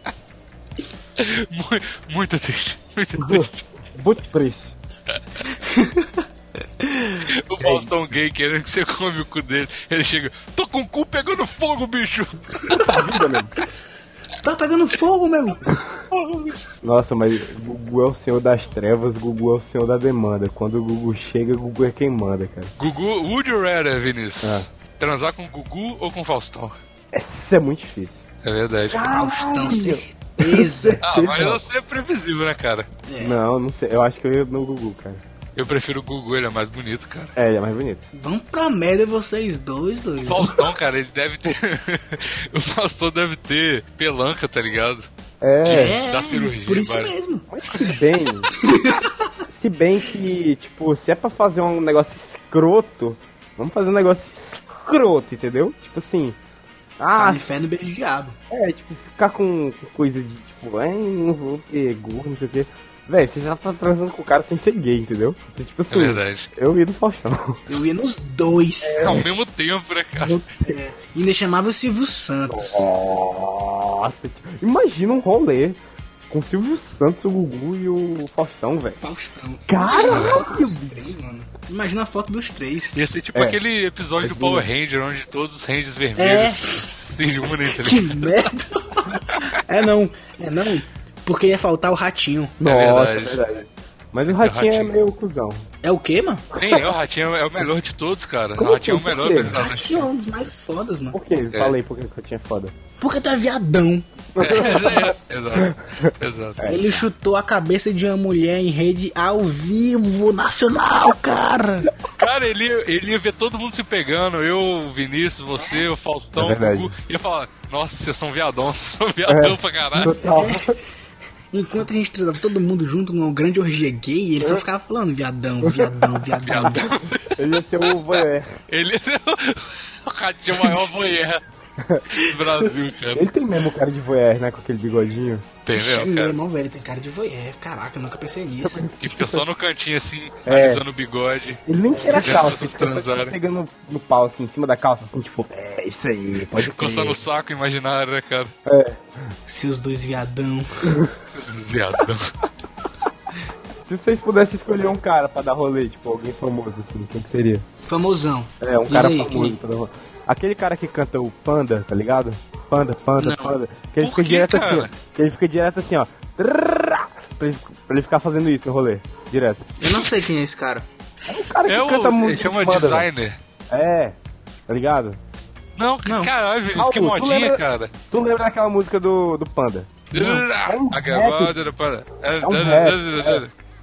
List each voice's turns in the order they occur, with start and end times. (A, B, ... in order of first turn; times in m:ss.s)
0:01.2-0:03.6 A
0:03.2-0:04.7 B
0:05.5-0:06.2 C
0:06.8-0:07.2 C
0:07.2-0:12.6 A
0:07.6-0:07.9 B
0:12.6-0:13.5 B
0:14.4-0:15.6 C
0:16.1-0:16.6 A
0:16.8-0:22.7 B
0:22.8-0:26.7 A
0:27.1-0:28.2 B
0:28.4-0:29.1 A
0:28.9-0:31.6 B
0:29.1-0:31.0 C
0:31.0-0:32.9 A
0:33.0-0:33.4 C
0:33.2-0:35.2 B
0:35.6-0:37.3 A
0:37.4-0:38.0 B
0:38.1-0:40.6 C
0:40.2-0:45.1 A
0:45.4-0:46.0 B
0:45.6-0:47.4 C
0:45.7-0:47.1 A
0:47.5-0:48.5 B
0:48.6-0:49.3 C
0:49.5-0:56.4 B
0:57.0-0:57.4 B
0:57.2-0:58.4 C
0:58.5-1:07.6 B
1:05.9-1:06.5 A
1:07.7-1:09.2 C
1:08.8-1:09.3 B
1:09.0-1:10.5 A
1:10.2-1:10.5 B
1:10.6-1:12.9 C
1:12.5-1:15.8 B
1:16.3-1:19.0 B
1:19.0-1:23.0 C
1:19.7-1:20.6 B
1:20.0-1:20.4 A
1:22.9-1:28.5 A
1:23.3-1:23.6 B
1:24.2-1:24.6 B
1:26.2-1:32.6 C
1:32.6-1:35.7 B
1:32.6-1:33.4 A
1:34.3-1:34.9 A
1:35.8-1:36.4 C
1:36.6-1:40.1 A
1:38.6-1:39.6 B
1:39.5-1:41.2 C
1:41.1-1:42.7 B
1:43.0-1:45.0 C
1:44.3-1:46.9 B
1:44.4-1:46.8 A
1:46.6-1:51.9 C
1:52.2-2:00.5 A
1:55.6-1:55.8 C
1:56.3-1:56.9 B
1:59.3-2:00.8 B
2:00.0-2:00.8 C
2:01.5-2:06.9 C
2:05.6-2:06.0 B
2:06.4-2:07.3 A
2:06.6-2:08.6 B
2:07.9-2:11.4 A
2:10.5-2:11.1 C
2:11.8-2:12.0 B
2:12.1-2:13.3 A
2:12.2-2:12.7 C
2:13.1-2:15.4 B
2:15.6-2:16.3 A
2:15.7-2:18.9 C
2:18.6-2:19.4 B
2:19.0-2:23.3 A
2:20.4-2:20.8 B
2:21.7-2:27.2 B
2:22.1-2:22.4 C
2:26.5-2:28.5 A
2:28.6-2:29.3 B
2:29.4-2:30.9 C
2:30.9-2:31.1 B
2:31.3-2:32.3 A
2:33.9-2:37.6 B
2:37.8-2:39.6 C
2:38.6-2:49.7 B
2:43.2-2:44.9 A
2:49.8-2:50.9 C
2:49.8-2:50.1 A
2:51.3-2:53.1 B
2:51.6-2:53.4 A
2:53.7-2:54.2 B
2:54.7-2:55.2 B
2:55.8-2:57.9 A
2:56.0-2:56.3 C
2:56.7-3:01.5 B
3:00.1-3:03.5 A
3:02.4-3:03.4 B